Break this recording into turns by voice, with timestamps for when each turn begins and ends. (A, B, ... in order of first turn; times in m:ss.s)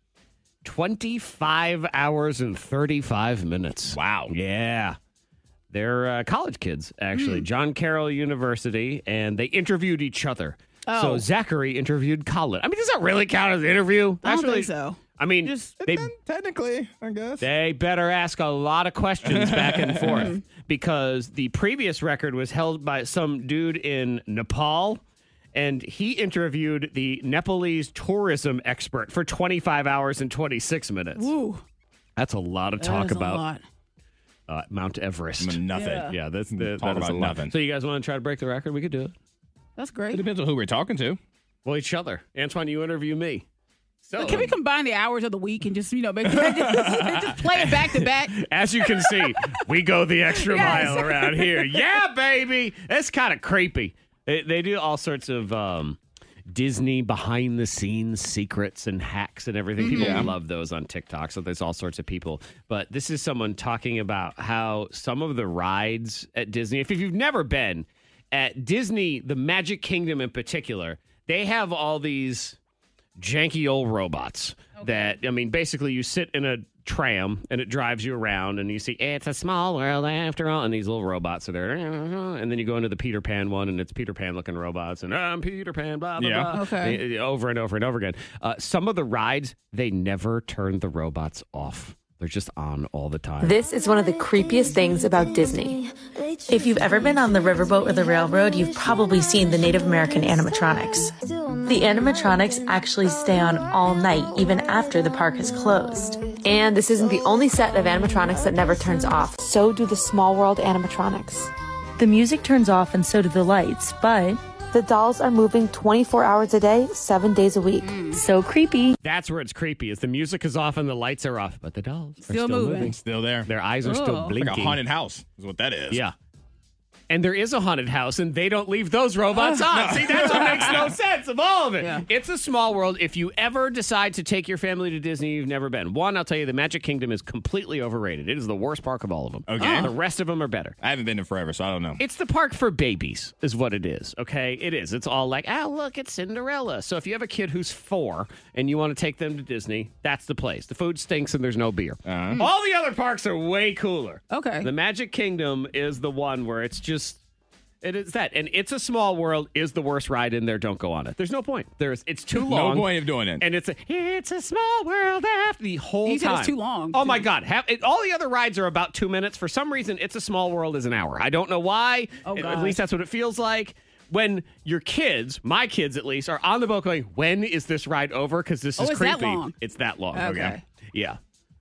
0:00.6-0:05.0 A
0:03.9-0:04.3 B
0:05.7-0:16.1 A
0:07.1-0:07.4 C
0:10.9-0:11.2 C
0:14.2-0:15.7 C
0:15.7-0:17.5 B
0:17.4-0:25.0 A
0:19.2-0:20.3 B
0:20.0-0:20.4 C
0:25.5-0:31.3 A
0:31.1-0:31.6 C
0:32.2-0:33.4 A
0:32.8-0:33.6 C
0:34.5-0:39.1 A
0:35.4-0:37.6 B
0:35.7-0:36.1 C
0:39.8-0:40.2 C
0:40.1-0:41.2 B
0:41.6-0:43.4 A
0:44.0-0:44.5 A
0:44.2-0:48.4 C
0:46.4-0:47.4 B
0:48.3-1:12.6 A
0:50.4-0:51.8 C
0:59.8-1:00.3 C
0:59.9-1:00.3 B
1:13.2-1:33.5 A
1:14.8-1:15.2 C
1:26.2-1:26.6 B
1:26.5-1:27.0 C
1:33.4-1:35.9 D
1:36.5-1:41.1 D
1:41.6-1:58.9 D
1:57.8-1:58.2 C
1:59.0-2:04.8 A
2:02.2-2:02.9 C
2:02.8-2:03.5 B
2:03.8-2:04.4 C
2:04.4-2:06.0 B
2:07.1-2:20.8 A
2:09.3-2:10.7 C
2:09.7-2:10.9 B
2:11.8-2:12.0 C
2:19.5-2:19.9 B
2:19.6-2:19.9 C
2:20.8-2:22.0 B
2:22.0-2:37.2 A
2:32.0-2:32.4 B
2:34.3-2:34.7 C
2:37.8-3:01.2 A
2:42.3-2:43.4 B
2:46.0-2:47.2 C
2:52.2-2:52.8 C
2:58.8-2:59.5 C
3:00.1-3:00.6 C